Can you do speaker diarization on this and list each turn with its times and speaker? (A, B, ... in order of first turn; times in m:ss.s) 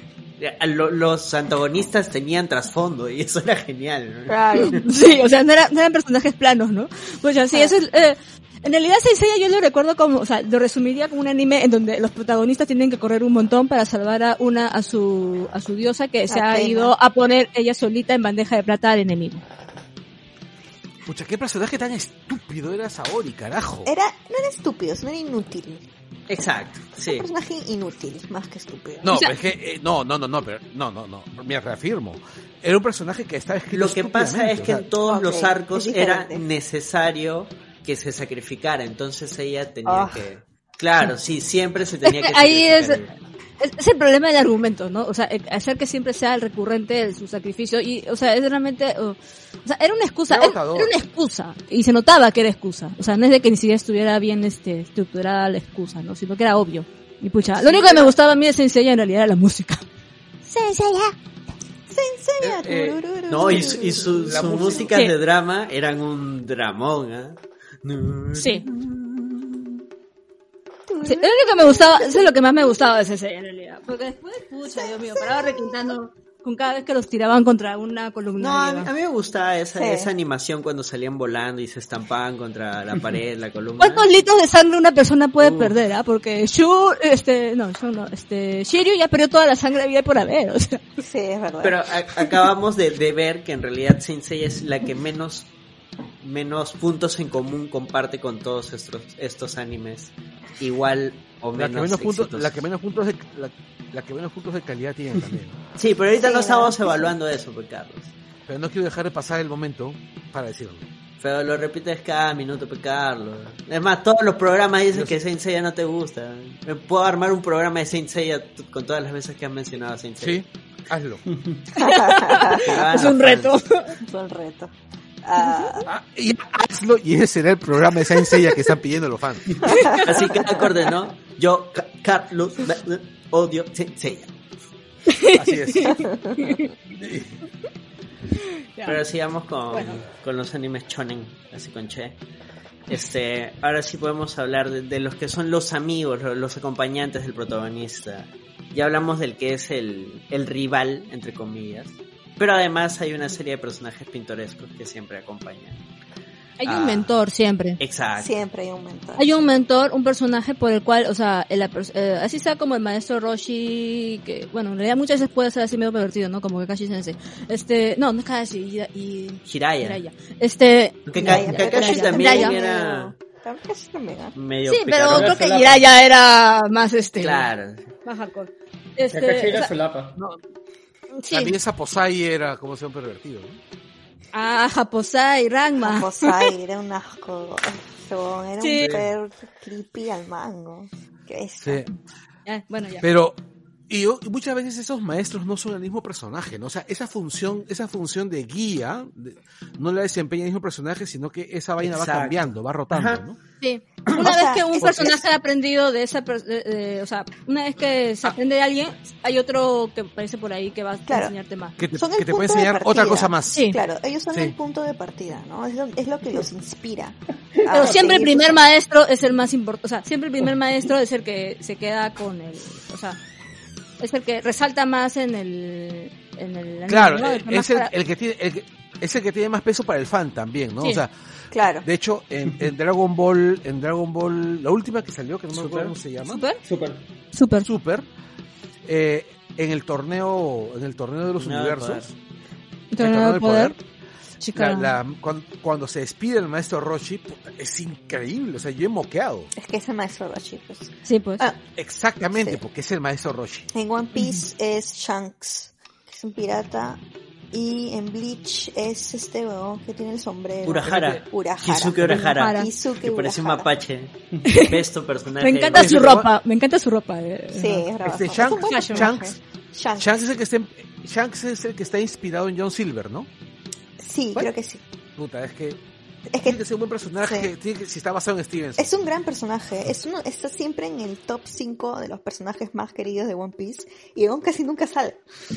0:00.4-0:04.8 A
0:04.3-0:05.2 B
0:04.6-0:19.4 C
0:16.3-0:16.9 B
0:21.1-0:23.9 D
0:23.8-0:25.9 B
0:26.3-0:27.3 A
0:27.0-0:29.1 B
0:29.0-0:34.9 D
0:33.7-0:43.2 A
0:35.0-0:36.4 B
0:39.9-0:40.2 B
0:42.0-0:43.0 C
0:43.6-0:59.8 C
0:50.3-0:50.9 D
0:57.6-0:58.1 B
1:00.5-1:01.2 C
1:01.9-1:04.9 B
1:02.4-1:03.7 D
1:03.3-1:09.8 A
1:04.3-1:04.9 D
1:08.3-1:08.6 C
1:10.9-1:12.9 B
1:11.0-1:18.9 C
1:14.7-1:15.9 B
1:18.4-1:24.1 A
1:19.8-1:20.1 B
1:23.8-1:30.8 C
1:25.4-1:25.8 A
1:31.0-1:31.8 B
1:31.6-1:35.5 A
1:36.2-1:42.6 A
1:41.6-1:45.6 D
1:45.8-1:48.1 A
1:46.2-1:47.1 B
1:48.5-1:50.9 D
1:51.2-2:00.4 A
1:54.9-1:55.2 D
2:00.2-2:01.2 D
2:01.8-2:04.0 C
2:01.8-2:02.6 B
2:02.6-2:03.6 A
2:04.0-2:05.9 B
2:05.9-2:10.0 D
2:09.7-2:10.0 B
2:10.0-2:14.3 A
2:15.1-2:16.7 C
2:15.3-2:16.0 D
2:15.9-2:16.4 B
2:16.9-2:17.4 D
2:18.8-2:22.2 A
2:19.7-2:20.0 C
2:22.9-2:35.8 A
2:36.6-2:37.8 C
2:36.6-2:37.2 A
2:37.8-2:38.4 A
2:38.1-2:39.5 B
2:39.2-2:52.6 C
2:49.5-2:50.0 A
2:51.1-2:53.2 A
2:51.2-2:54.4 B
2:54.4-2:55.4 A
2:54.7-2:57.5 C
2:55.1-2:55.8 E
2:57.2-2:57.9 A
2:58.0-2:59.7 C
2:59.1-3:00.2 E
3:01.2-3:01.6 C
3:01.3-3:03.6 D
3:04.3-3:06.5 C
3:05.8-3:11.9 B
3:08.6-3:08.9 C
3:08.8-3:09.1 D
3:11.6-3:11.9 D
3:12.5-3:13.0 C
3:13.0-3:13.4 D
3:13.9-3:23.4 D
3:21.8-3:23.2 A
3:23.6-3:31.8 C
3:24.1-3:25.2 B
3:31.1-3:31.3 B
3:31.8-3:33.7 D
3:31.9-3:38.6 B
3:37.6-3:38.0 E
3:37.7-3:43.2 C
3:44.0-3:47.9 C
3:46.9-3:51.1 D
3:51.5-3:51.9 B
3:51.8-3:56.4 D
3:55.5-3:55.9 A
3:56.3-3:56.6 C
3:56.6-3:57.0 E
3:57.3-3:57.7 C
3:57.6-3:58.1 D
3:58.8-4:02.2 D
4:01.4-4:02.1 A
4:02.9-4:03.7 C
4:03.0-4:03.8 D
4:04.4-4:04.9 C
4:04.6-4:09.5 D
4:09.6-4:11.7 B
4:11.0-4:11.4 C
4:11.8-4:13.7 D
4:12.3-4:12.6 B
4:13.7-4:17.0 B
4:14.2-4:14.4 C
4:17.5-4:23.7 B
4:20.6-4:26.0 A
4:20.8-4:21.2 D
4:22.1-4:22.7 C
4:24.5-4:24.8 C
4:25.4-4:27.8 C
4:25.7-4:26.3 D
4:27.5-4:30.3 B
4:28.0-4:29.4 D
4:28.5-4:29.1 C
4:30.0-4:33.3 D
4:34.0-4:34.8 B
4:35.2-4:35.8 D
4:36.3-4:36.6 B
4:36.4-4:39.0 D
4:37.2-4:37.5 B
4:38.8-4:45.2 B